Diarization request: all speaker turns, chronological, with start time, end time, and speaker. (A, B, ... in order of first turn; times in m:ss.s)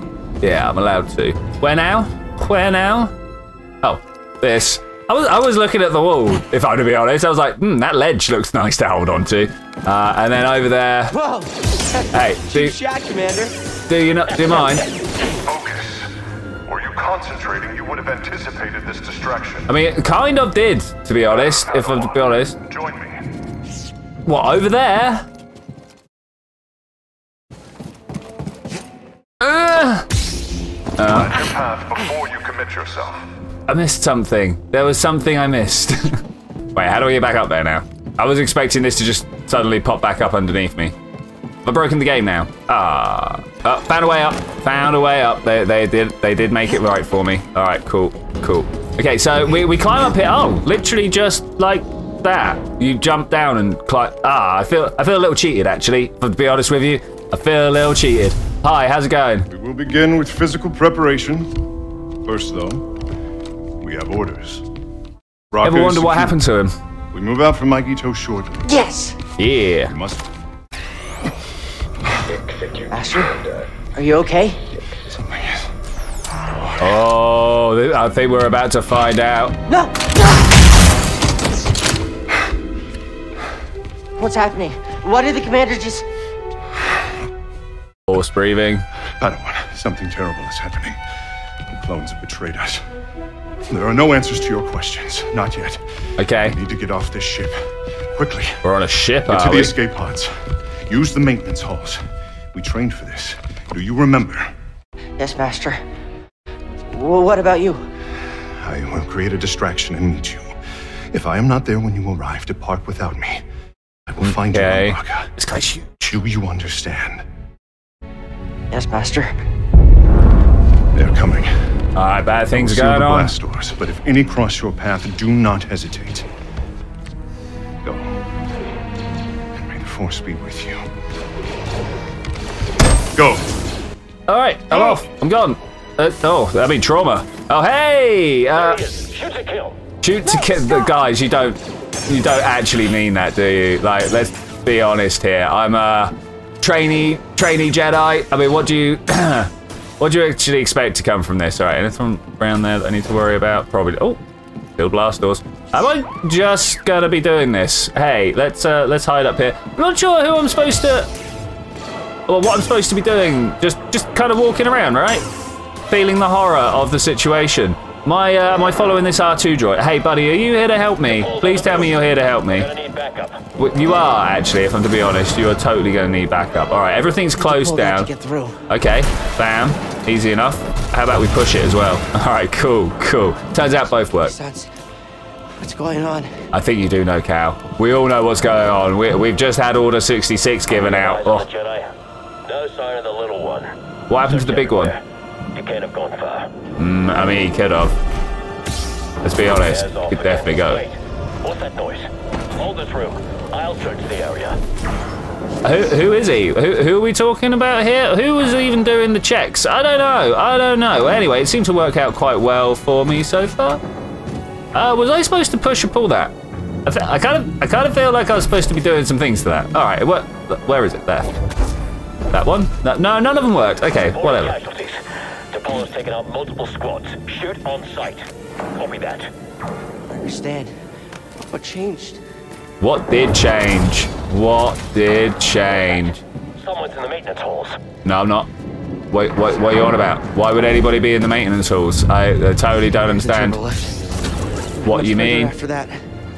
0:00.4-0:03.1 A
0:03.8-0:11.2 A
0:11.1-0:13.5 B
0:12.1-0:12.8 A
0:13.9-0:14.9 A
0:15.4-0:16.1 C
0:16.6-0:19.7 C
0:19.7-0:22.6 A
0:21.8-0:23.2 C
0:24.2-0:25.2 A
0:29.4-0:30.1 A
0:31.0-0:31.5 A
0:31.1-0:33.2 C
0:33.7-0:40.9 A
0:41.6-0:59.5 A
0:59.5-1:01.5 C
1:02.2-1:02.9 C
1:03.8-1:04.6 C
1:05.5-1:06.4 C
1:05.6-1:06.7 A
1:07.1-1:08.7 C
1:08.7-1:09.2 B
1:09.4-1:09.9 A
1:09.9-1:10.3 C
1:12.9-1:14.7 B
1:15.0-1:15.7 C
1:16.8-1:19.6 A
1:19.7-1:20.2 B
1:24.2-1:26.0 B
1:28.1-1:28.8 A
1:29.2-1:31.0 C
1:31.7-1:32.8 C
1:33.7-1:35.8 C
1:36.2-1:36.6 A
1:36.4-1:37.6 C
1:38.1-1:38.6 C
1:38.6-1:39.7 A
1:39.3-1:40.3 C
1:40.9-1:42.0 C
1:42.5-1:44.5 C
1:45.2-1:45.8 B
1:46.9-1:47.8 B
1:48.6-1:50.5 C
1:51.1-1:53.4 C
1:54.1-1:55.3 C
1:54.2-1:56.2 A
1:56.1-1:57.2 C
1:58.7-1:59.3 B
2:00.9-2:01.5 C
2:01.9-2:03.3 A
2:02.5-2:06.3 C
2:07.8-2:08.2 C
2:09.5-2:10.8 C
2:13.1-2:13.5 C
2:14.3-2:18.8 A
2:18.6-2:19.8 D
2:20.0-2:34.2 A
2:34.8-2:41.1 A
2:42.3-2:45.2 A
2:45.9-2:52.7 A
2:51.1-2:53.4 D
2:53.5-2:58.1 A
2:57.4-2:58.6 B
2:58.7-3:04.3 A
3:04.2-3:04.7 B
3:05.6-3:06.3 B
3:06.5-3:11.4 A
3:10.7-3:11.9 D
3:12.4-3:15.0 D
3:14.1-3:14.9 A
3:15.5-3:16.5 D
3:16.8-3:18.0 A
3:19.2-3:20.8 A
3:19.6-3:24.6 D
3:25.6-3:33.8 A
3:34.7-3:36.3 A
3:36.8-3:41.4 A
3:42.3-3:44.6 A
3:44.1-3:49.3 D
3:50.1-3:50.7 B
3:51.4-3:52.2 B
3:52.8-3:56.2 A
3:55.7-3:57.8 D
3:58.0-3:58.5 A
3:59.1-4:03.6 A
4:03.0-4:06.0 B
4:04.8-4:05.5 A